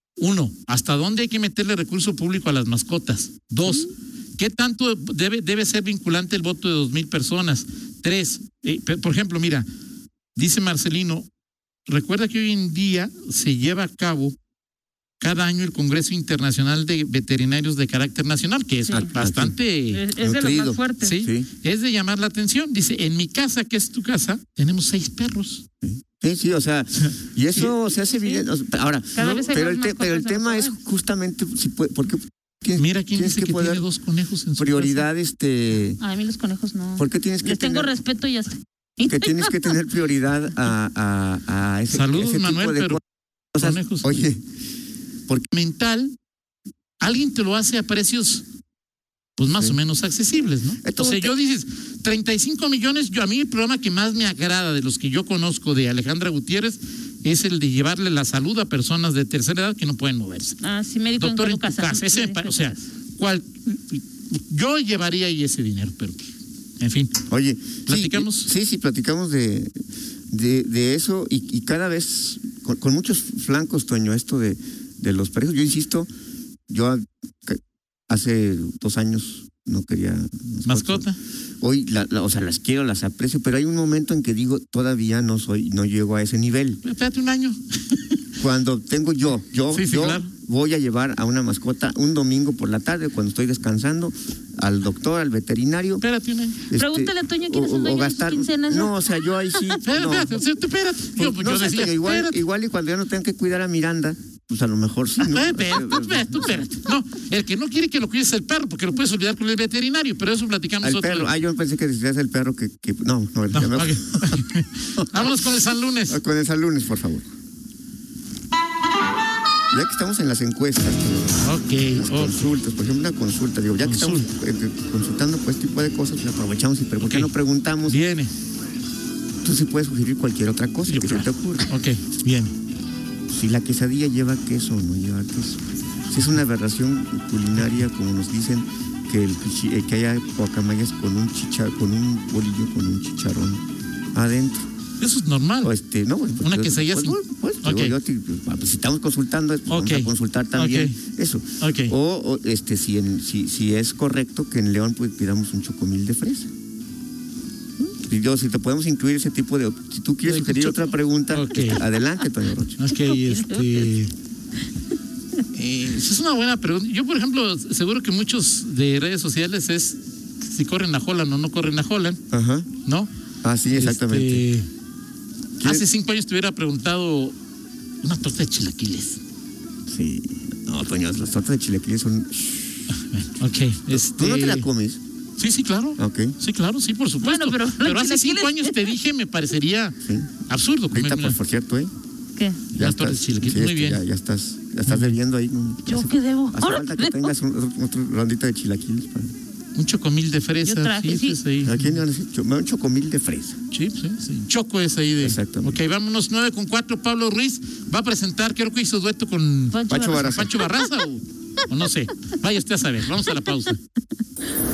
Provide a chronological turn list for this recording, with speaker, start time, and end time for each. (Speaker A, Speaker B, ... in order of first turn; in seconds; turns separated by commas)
Speaker A: 0.2-9.7, Speaker A: 10.4-11.3, Speaker A: 11.9-14.4, Speaker A: 15.2-20.0, Speaker B: 18.9-19.1, Speaker C: 18.9-19.6, Speaker B: 19.9-21.2, Speaker C: 20.1-21.5, Speaker A: 21.0-25.6, Speaker C: 25.8-33.8, Speaker B: 29.1-30.8, Speaker A: 29.2-29.5, Speaker A: 32.8-35.1, Speaker C: 34.5-36.0, Speaker B: 36.0-39.8, Speaker C: 37.0-37.9, Speaker C: 39.1-43.0, Speaker A: 41.9-43.0, Speaker C: 43.5-44.4, Speaker A: 43.6-44.2, Speaker A: 45.5-46.1, Speaker A: 47.0-48.5, Speaker A: 49.4-60.6, Speaker C: 50.8-51.4, Speaker B: 60.6-62.8, Speaker A: 61.2-67.2, Speaker C: 67.3-69.7, Speaker A: 67.9-68.5, Speaker C: 70.3-76.1, Speaker C: 76.7-81.1, Speaker A: 80.7-81.2, Speaker C: 81.6-86.8, Speaker A: 86.8-88.2, Speaker C: 88.4-96.0, Speaker A: 89.7-90.3, Speaker A: 96.0-96.6, Speaker C: 96.7-100.3, Speaker B: 96.7-99.0, Speaker B: 99.5-99.8, Speaker A: 99.8-102.4, Speaker C: 101.2-106.6, Speaker A: 105.3-111.3, Speaker C: 110.8-114.4, Speaker A: 113.5-116.2, Speaker C: 115.0-115.3, Speaker C: 116.1-117.2, Speaker C: 119.7-128.0, Speaker A: 121.4-122.5, Speaker A: 123.8-124.3, Speaker A: 127.0-127.3, Speaker A: 127.9-128.3, Speaker C: 129.4-131.7, Speaker A: 130.9-132.5, Speaker C: 133.3-143.6, Speaker C: 144.2-144.7, Speaker A: 145.0-145.7, Speaker C: 145.6-156.5, Speaker A: 146.4-147.9, Speaker A: 149.7-151.0, Speaker A: 151.6-151.9, Speaker C: 157.8-162.8, Speaker A: 160.3-161.8, Speaker A: 162.8-164.1, Speaker B: 162.9-163.9, Speaker A: 165.6-172.2, Speaker C: 172.3-172.7, Speaker C: 173.4-174.4, Speaker A: 173.7-174.7, Speaker A: 175.6-177.4, Speaker A: 178.0-179.2, Speaker C: 179.9-182.9, Speaker A: 182.9-184.7, Speaker C: 183.9-185.0, Speaker A: 185.4-190.0, Speaker C: 186.0-186.4, Speaker B: 187.2-188.9, Speaker C: 190.1-190.3, Speaker A: 190.5-191.4, Speaker C: 190.9-191.9, Speaker B: 192.4-192.7, Speaker C: 192.7-199.3, Speaker A: 192.8-194.0, Speaker A: 194.9-195.2, Speaker B: 195.9-197.3, Speaker A: 199.8-201.9, Speaker B: 200.6-201.4, Speaker C: 201.6-203.6, Speaker A: 203.7-213.8, Speaker C: 205.2-205.8, Speaker B: 209.7-210.5, Speaker C: 209.9-210.5